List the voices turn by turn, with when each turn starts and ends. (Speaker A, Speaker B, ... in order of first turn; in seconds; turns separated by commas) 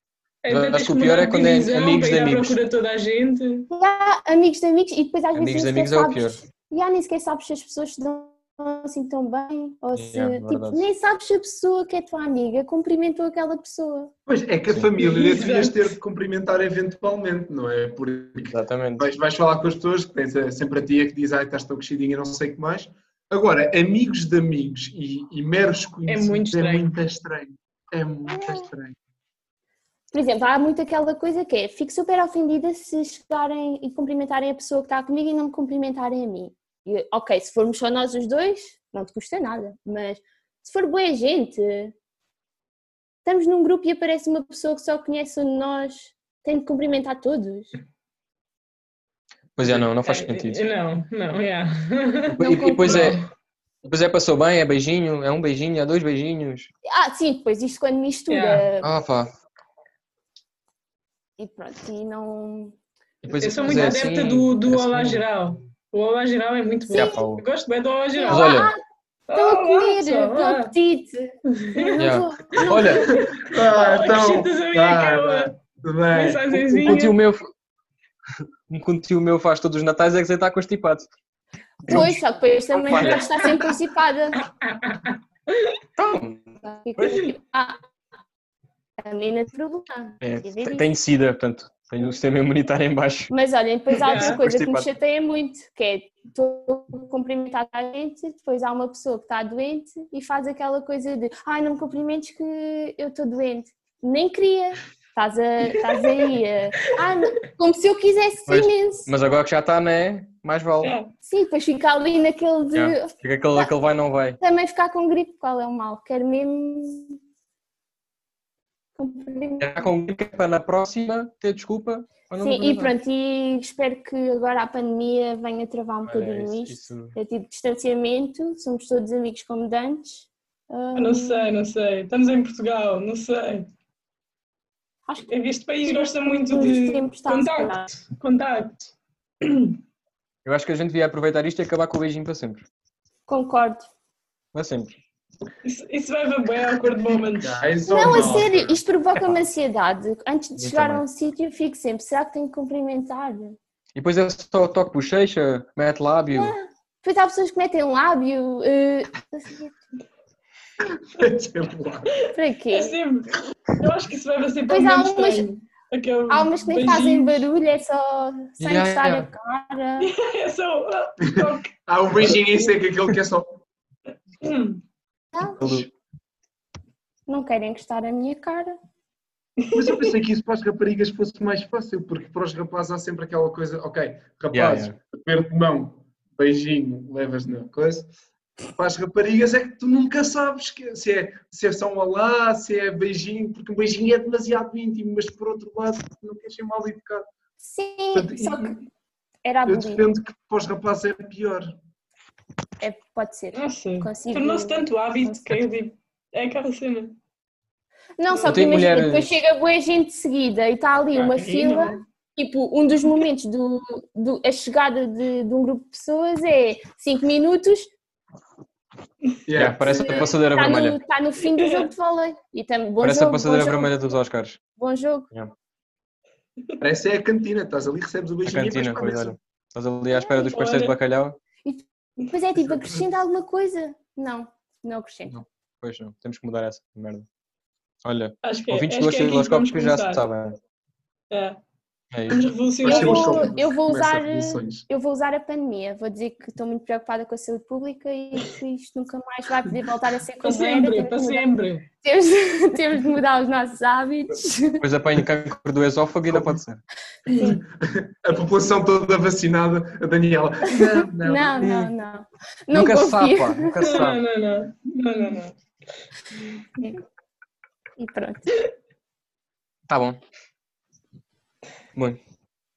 Speaker A: 0.4-3.7, Speaker B: 0.5-2.6, Speaker C: 3.7-14.1, Speaker B: 5.3-6.4, Speaker B: 9.9-10.9, Speaker D: 14.3-28.9, Speaker A: 15.0-15.9, Speaker B: 18.5-19.1, Speaker A: 26.1-26.9, Speaker C: 28.3-28.7, Speaker C: 30.1-41.9, Speaker C: 43.2-47.7, Speaker B: 49.5-50.6, Speaker A: 50.0-53.2, Speaker B: 52.3-53.2, Speaker C: 52.4-53.2, Speaker B: 53.8-56.7, Speaker C: 56.9-58.9, Speaker A: 58.3-58.7, Speaker B: 58.8-59.3, Speaker C: 61.4-62.7, Speaker B: 63.2-65.2, Speaker A: 63.4-68.5, Speaker C: 66.9-67.2, Speaker B: 66.9-67.4, Speaker C: 68.1-68.8, Speaker B: 68.3-68.7, Speaker A: 69.3-70.7, Speaker C: 69.3-73.3, Speaker A: 71.5-71.9, Speaker B: 72.0-73.2, Speaker A: 73.1-75.5, Speaker D: 73.3-76.7, Speaker A: 76.1-77.2, Speaker B: 76.7-77.5, Speaker B: 78.7-81.1, Speaker B: 81.8-82.2, Speaker C: 81.9-84.5, Speaker B: 82.7-83.5, Speaker A: 84.4-85.7, Speaker B: 86.0-87.3, Speaker C: 86.6-87.8, Speaker C: 89.0-90.9, Speaker B: 90.2-93.3, Speaker C: 93.3-109.1, Speaker A: 94.0-94.4, Speaker B: 94.1-94.9, Speaker B: 108.5-110.9, Speaker A: 110.8-111.1, Speaker C: 111.2-113.7, Speaker B: 112.7-114.4, Speaker C: 114.4-117.2, Speaker C: 119.0-119.9, Speaker B: 119.6-122.9, Speaker C: 122.4-131.5, Speaker B: 126.0-127.2, Speaker A: 130.9-133.7, Speaker A: 135.3-139.8, Speaker C: 135.9-137.9, Speaker B: 140.4-142.6, Speaker C: 143.3-143.9, Speaker B: 144.5-144.9, Speaker A: 145.6-147.6, Speaker D: 147.2-148.8, Speaker C: 147.8-153.6, Speaker B: 150.6-151.0, Speaker B: 153.9-156.6, Speaker C: 156.3-159.7, Speaker D: 160.8-162.1, Speaker A: 162.1-167.5, Speaker C: 162.3-163.0, Speaker C: 164.7-165.5, Speaker C: 166.3-170.1, Speaker B: 168.6-169.3, Speaker A: 170.0-172.4, Speaker D: 171.2-173.6, Speaker A: 174.4-174.8, Speaker C: 175.3-175.8, Speaker B: 175.6-175.9, Speaker C: 177.3-178.8, Speaker A: 179.6-180.1, Speaker D: 179.7-188.1, Speaker B: 184.5-184.9, Speaker D: 188.8-197.3, Speaker C: 197.6-198.8, Speaker D: 198.1-198.8, Speaker C: 199.4-200.0, Speaker D: 199.7-201.8, Speaker C: 202.8-205.6, Speaker A: 203.5-207.2, Speaker C: 208.2-217.9, Speaker A: 208.3-208.6, Speaker B: 208.4-209.3, Speaker A: 211.1-212.0, Speaker D: 219.4-220.3, Speaker B: 219.5-221.0, Speaker C: 219.8-223.9, Speaker A: 221.6-221.9, Speaker B: 223.0-224.6, Speaker C: 224.8-225.3, Speaker D: 226.8-229.3, Speaker B: 228.4-231.4, Speaker C: 230.1-230.5, Speaker A: 230.5-230.9, Speaker C: 231.6-235.3, Speaker B: 235.3-237.2, Speaker B: 238.0-240.6, Speaker A: 238.4-240.2, Speaker A: 241.3-241.6, Speaker B: 242.1-242.4, Speaker A: 242.3-243.5, Speaker D: 242.8-244.8, Speaker C: 242.8-251.5, Speaker A: 250.4-251.8, Speaker C: 252.0-254.8, Speaker B: 254.8-256.8, Speaker D: 256.3-256.6, Speaker C: 257.3-257.6, Speaker A: 257.3-257.5, Speaker D: 257.8-261.7, Speaker C: 260.7-264.1, Speaker B: 261.6-261.9, Speaker B: 262.7-264.2, Speaker A: 263.9-265.6, Speaker C: 268.0-268.6, Speaker B: 269.9-270.2, Speaker B: 271.9-272.2